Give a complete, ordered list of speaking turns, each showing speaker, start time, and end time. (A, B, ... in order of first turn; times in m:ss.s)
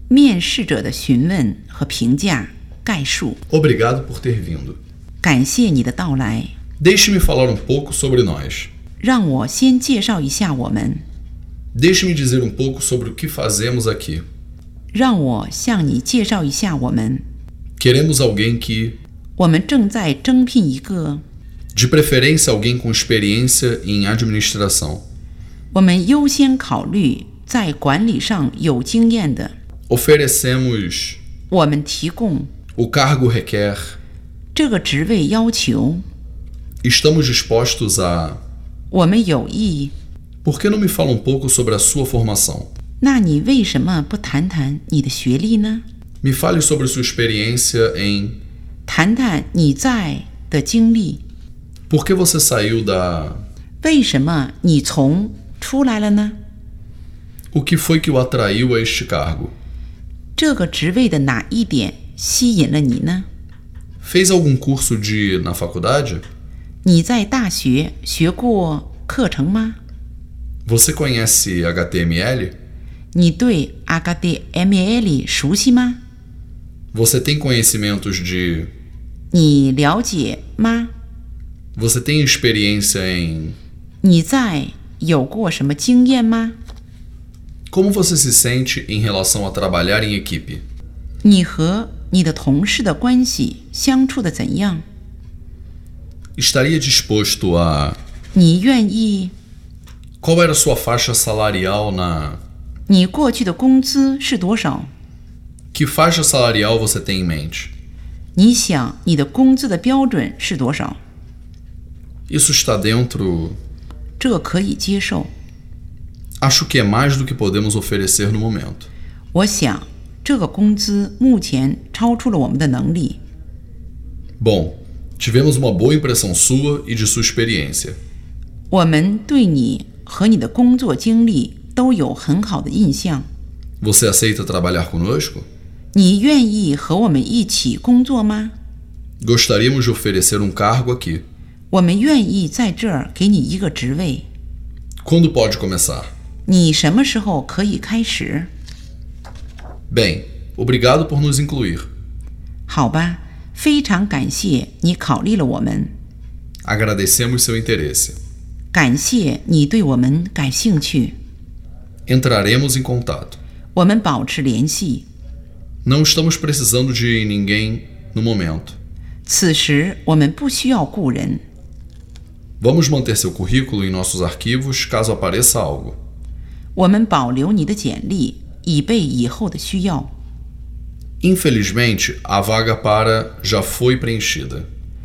0:00.1-0:03.4 A
0:03.5-0:04.8 B
0:05.2-0:06.5 A
0:06.8-0:08.7 B
0:09.0-0:11.0 A
0:11.7-0:14.3 B
0:14.9-0:17.2 A
0:17.8-0:19.0 B
0:19.4-0:21.2 A
0:21.7-0:25.0 B
0:25.7-0:29.5 A
0:29.9-0:31.2 B
0:31.5-0:32.5 A
0:32.8-0:34.0 B
0:34.6-0:36.0 A
0:36.8-0:38.4 B
0:38.9-0:39.9 A
0:40.4-0:42.7 B
0:43.0-0:45.8 A
0:46.2-0:48.4 B
0:48.9-0:51.2 A
0:51.9-0:53.4 B
0:53.8-0:56.4 A
0:57.5-0:59.5 B
1:00.4-1:03.3 A
1:04.0-1:06.2 B
1:06.8-1:09.8 A
1:10.7-1:12.5 B
1:13.1-1:16.0 A
1:16.9-1:18.7 B
1:19.3-1:20.9 A
1:21.8-1:23.6 B
1:24.0-1:26.6 A
1:27.7-1:30.6 B
1:31.2-1:34.8 A
1:36.4-1:38.0 B
1:38.3-1:39.3 A
1:40.2-1:42.4 B
1:42.9-1:44.9 A
1:45.7-1:47.7 B
1:48.4-1:51.0 A
1:52.3-1:53.6 B
1:54.2-1:55.3 A
1:56.4-1:58.9 B
1:59.3-2:03.2 A
2:04.4-2:08.0 B
2:08.7-2:13.3 A
2:13.8-2:15.5 B
2:15.9-2:18.5 A
2:19.2-2:21.2 B
2:21.7-2:24.3 A
2:25.0-2:26.1 B
2:26.5-2:28.5 A
2:29.9-2:31.9 B
2:32.7-2:35.9 A
2:36.6-2:38.2 B
2:38.7-2:41.2 A
2:42.1-2:43.4 B
2:43.7-2:45.1 A
2:45.8-2:48.8 B
2:49.3-2:51.4 A
2:52.6-2:56.0 B
2:56.8-3:00.1 A
3:01.2-3:04.7 B